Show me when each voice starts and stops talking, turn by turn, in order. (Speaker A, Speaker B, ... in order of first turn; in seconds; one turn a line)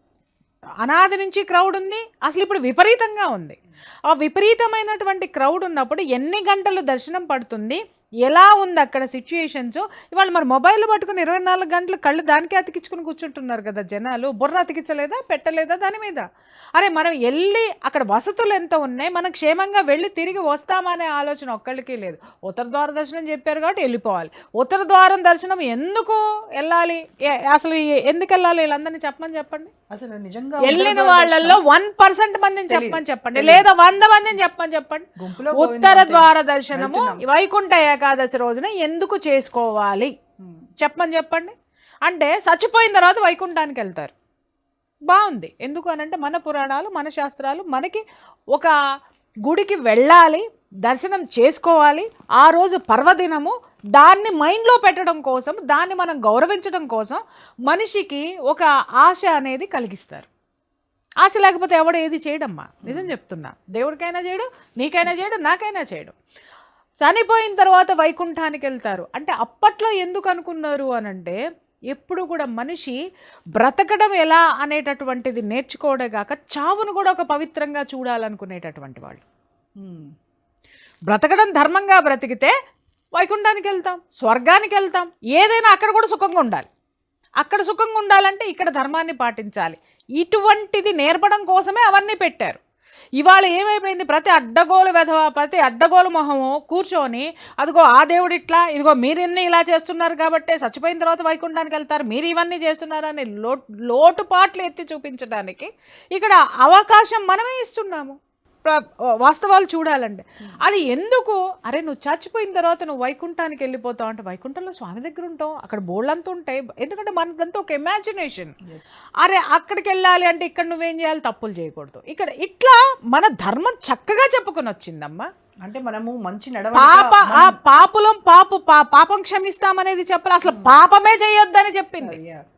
Speaker A: 0.8-16.2
Speaker A: 16.8-29.7
Speaker B: 29.9-31.6
Speaker A: 30.6-40.1
Speaker B: 32.7-33.7
Speaker B: 35.2-37.2
Speaker B: 40.4-40.7
Speaker A: 40.8-41.5
Speaker A: 42.0-44.1
Speaker A: 45.1-48.7
Speaker A: 49.5-60.3
Speaker A: 61.2-66.1
Speaker B: 62.8-63.1
Speaker A: 67.0-71.4
Speaker A: 71.9-73.0
Speaker A: 73.6-79.2
Speaker B: 79.8-80.1
Speaker A: 81.1-82.5
Speaker A: 83.1-86.7
Speaker A: 87.4-92.6
Speaker A: 93.2-118.5
Speaker A: 119.2-125.2
Speaker B: 125.6-127.6
Speaker A: 126.7-132.2
Speaker B: 130.4-130.8
Speaker B: 132.0-132.4